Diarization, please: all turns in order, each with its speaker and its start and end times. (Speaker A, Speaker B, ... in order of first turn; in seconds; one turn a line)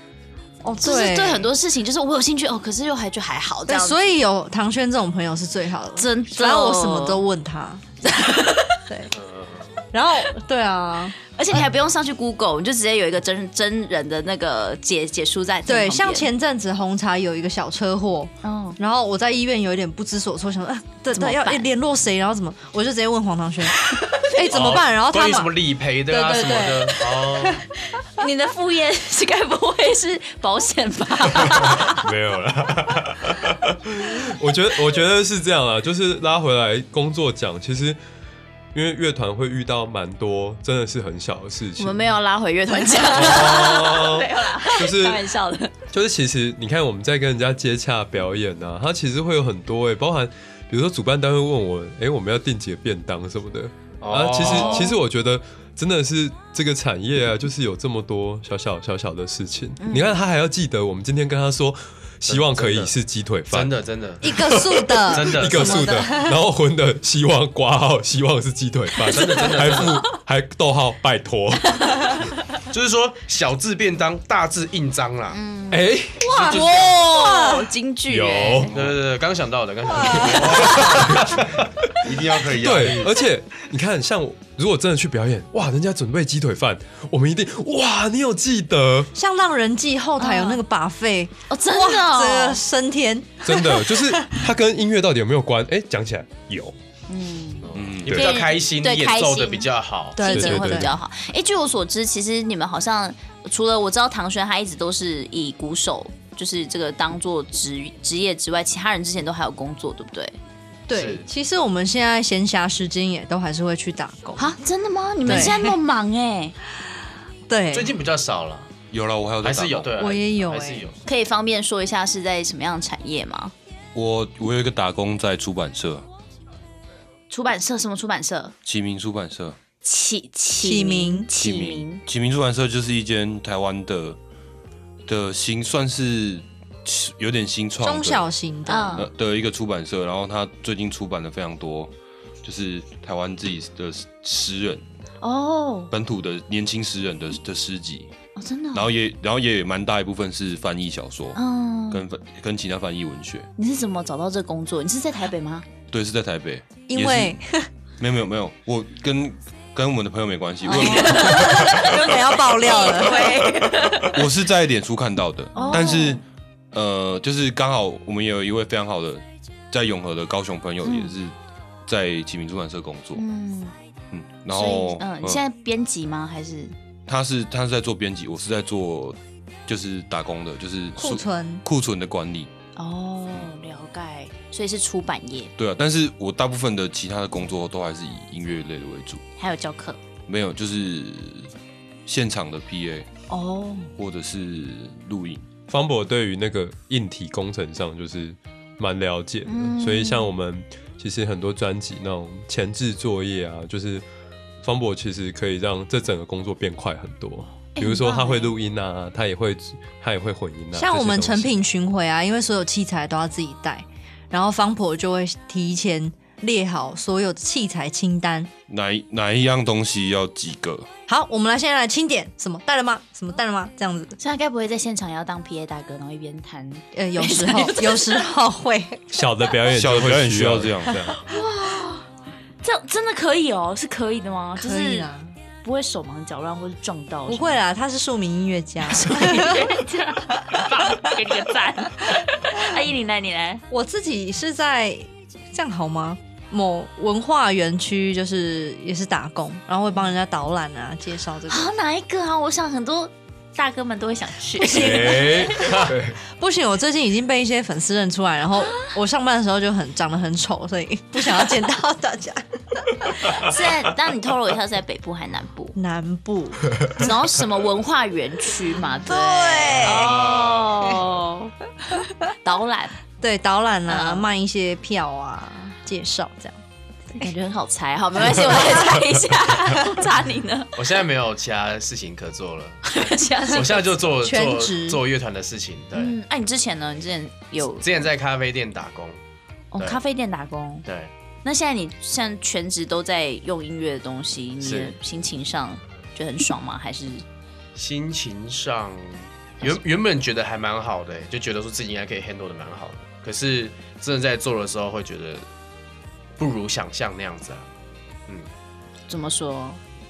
Speaker A: 0.6-1.5
Speaker B: 0.8-4.0
Speaker A: 3.7-7.8
Speaker B: 6.0-7.2
Speaker B: 8.0-8.8
Speaker A: 8.9-9.1
Speaker C: 9.1-9.7
Speaker A: 9.9-11.1
Speaker B: 11.3-16.3
Speaker A: 15.7-27.6
Speaker B: 18.4-18.8
Speaker B: 21.1-21.7
Speaker C: 24.5-27.6
Speaker B: 27.9-32.0
Speaker D: 31.4-38.0
Speaker D: 38.7-42.2
Speaker B: 41.8-45.7
Speaker D: 43.0-45.2
Speaker D: 45.9-63.7
Speaker C: 54.0-55.0
Speaker B: 54.4-54.9
Speaker B: 59.8-60.2
Speaker C: 62.3-62.9
Speaker C: 63.5-64.4
Speaker A: 64.2-66.4
Speaker D: 64.3-72.1
Speaker C: 65.0-65.9
Speaker C: 69.0-70.1
Speaker B: 71.7-72.4
Speaker C: 72.7-75.4
Speaker B: 75.3-78.7
Speaker D: 75.7-76.3
Speaker C: 76.3-77.0
Speaker A: 76.5-77.7
Speaker D: 78.1-78.7
Speaker C: 78.6-81.4
Speaker A: 79.9-80.7
Speaker D: 80.6-89.1
Speaker C: 82.0-83.2
Speaker E: 82.0-83.1
Speaker A: 89.1-94.4
Speaker B: 90.2-90.6
Speaker B: 91.5-92.6
Speaker D: 93.4-96.7
Speaker B: 97.1-110.3
Speaker C: 97.7-100.4
Speaker E: 97.7-98.3
Speaker A: 100.2-100.9
Speaker D: 100.3-100.9
Speaker A: 110.9-114.5
Speaker C: 110.9-111.2
Speaker B: 114.4-116.5
Speaker A: 115.2-115.7
Speaker A: 117.5-117.9
Speaker C: 117.7-118.7
Speaker E: 118.9-120.0
Speaker C: 119.4-121.0
Speaker A: 120.0-120.9
Speaker B: 121.1-123.5
Speaker E: 123.9-126.1
Speaker B: 127.3-128.5
Speaker E: 128.6-129.6
Speaker B: 129.8-132.0
Speaker A: 130.6-131.3
Speaker E: 131.3-134.2
Speaker E: 135.1-138.3
Speaker A: 137.8-139.1
Speaker B: 138.7-139.1
Speaker E: 138.9-144.8
Speaker B: 145.2-145.9
Speaker E: 145.9-148.1
Speaker B: 148.3-148.9
Speaker E: 148.7-153.5
Speaker B: 151.3-152.0
Speaker B: 153.6-155.7
Speaker E: 155.9-157.4
Speaker A: 156.9-157.7
Speaker E: 158.0-171.3
Speaker A: 160.6-163.5
Speaker B: 160.7-164.2
Speaker B: 165.5-166.2
Speaker A: 165.6-165.9
Speaker B: 170.8-171.1
Speaker E: 171.8-173.2
Speaker B: 173.1-173.7
Speaker E: 174.1-175.4
Speaker B: 174.5-176.7
Speaker E: 177.1-182.5
Speaker A: 180.9-181.6
Speaker B: 182.8-185.5
Speaker E: 185.6-189.2
Speaker B: 189.4-190.0
Speaker E: 190.2-191.5
Speaker E: 192.0-193.1
Speaker B: 193.3-193.9
Speaker E: 194.0-195.5
Speaker D: 195.7-204.0
Speaker B: 199.4-200.3
Speaker D: 204.6-211.5
Speaker B: 207.7-208.5
Speaker A: 210.7-218.5
Speaker E: 218.7-220.9
Speaker A: 221.1-224.2
Speaker B: 224.2-228.3
Speaker A: 226.9-229.0
Speaker D: 229.1-231.2
Speaker E: 229.7-230.9
Speaker B: 231.1-232.1
Speaker B: 232.6-235.1
Speaker A: 234.6-235.3
Speaker B: 235.6-237.6
Speaker A: 237.3-239.8
Speaker B: 238.9-243.6
Speaker A: 240.4-241.1
Speaker A: 243.7-251.7
Speaker B: 251.5-255.9
Speaker A: 254.6-263.3
Speaker D: 254.7-256.2
Speaker B: 263.2-265.8
Speaker A: 265.8-266.9
Speaker B: 266.9-271.5
Speaker A: 269.0-271.0
Speaker B: 272.3-272.9
Speaker A: 273.2-276.6
Speaker B: 273.9-274.3
Speaker B: 277.1-280.8
Speaker A: 278.3-279.1
Speaker C: 280.8-286.2
Speaker B: 282.8-283.9
Speaker A: 284.2-285.0
Speaker B: 285.9-288.1
Speaker C: 287.8-289.2
Speaker B: 289.7-290.9
Speaker C: 290.9-291.1
Speaker B: 291.4-297.2
Speaker C: 294.6-294.9
Speaker C: 297.7-305.4
Speaker C: 306.4-307.7
Speaker B: 309.1-309.8